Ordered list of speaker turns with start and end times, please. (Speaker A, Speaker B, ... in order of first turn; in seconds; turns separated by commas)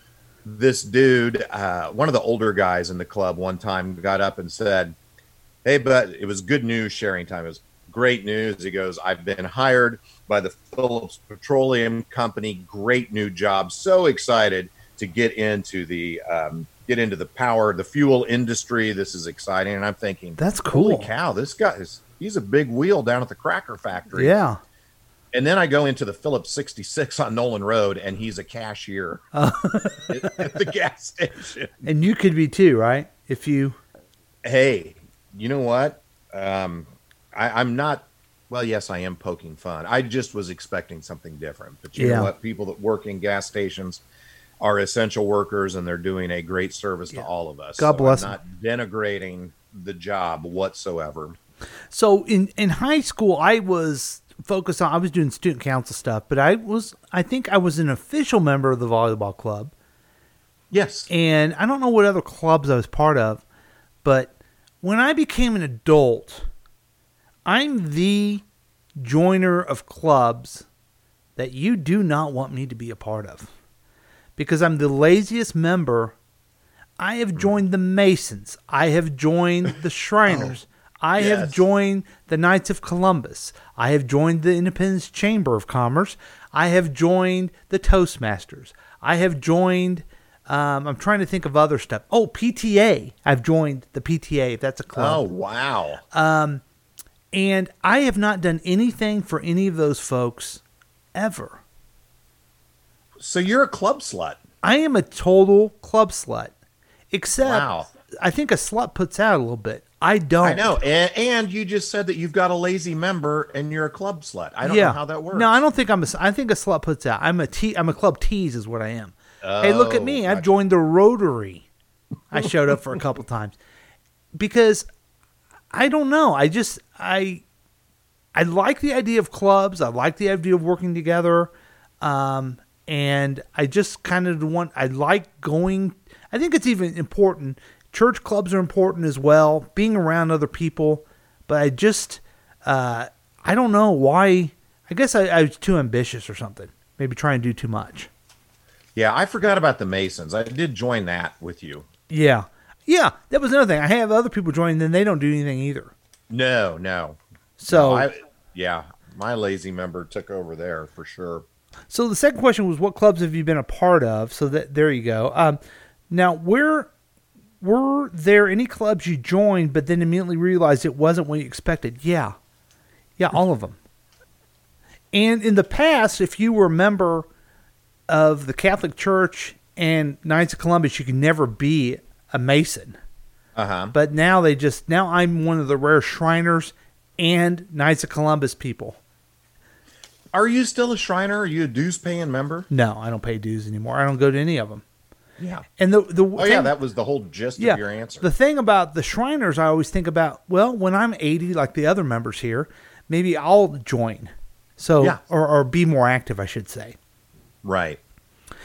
Speaker A: 0.4-5.0, Speaker A: 5.6-24.4, Speaker B: 20.4-21.1, Speaker B: 24.1-24.6, Speaker A: 25.3-29.2, Speaker B: 29.3-30.6, Speaker A: 30.1-31.7, Speaker B: 31.8-33.8, Speaker A: 34.4-44.0, Speaker B: 42.0-42.3, Speaker A: 44.6-51.4, Speaker B: 47.8-48.4, Speaker B: 51.9-59.7, Speaker A: 60.7-61.1, Speaker B: 61.1-63.4, Speaker B: 64.0-66.5, Speaker B: 67.5-68.4, Speaker B: 69.0-70.7, Speaker B: 71.4-73.5, Speaker B: 74.4-76.1, Speaker B: 77.0-95.2, Speaker A: 80.3-80.5, Speaker A: 81.2-81.6, Speaker A: 94.9-96.0, Speaker B: 96.1-96.6, Speaker B: 97.3-100.6, Speaker B: 101.1-101.6, Speaker A: 103.2-104.4, Speaker B: 104.6-106.5, Speaker B: 107.1-110.8, Speaker A: 107.4-107.9, Speaker A: 110.4-115.6, Speaker B: 114.6-121.7, Speaker A: 119.4-120.5, Speaker B: 122.3-123.6, Speaker B: 124.3-124.9, Speaker B: 125.7-127.4, Speaker B: 128.3-148.1, Speaker A: 148.9-151.8, Speaker B: 152.1-155.9, Speaker A: 156.3-161.4, Speaker B: 157.6-158.1, Speaker B: 161.9-166.9, Speaker B: 167.6-172.3, Speaker B: 173.2-173.8, Speaker B: 175.1-177.3, Speaker B: 178.1-183.0, Speaker A: 183.6-183.9, Speaker B: 183.9-189.0, Speaker A: 190.3-192.7, Speaker B: 192.7-194.8, Speaker A: 195.4-195.7, Speaker B: 195.8-196.7, Speaker A: 196.3-198.3, Speaker B: 197.6-207.0, Speaker A: 207.6-208.0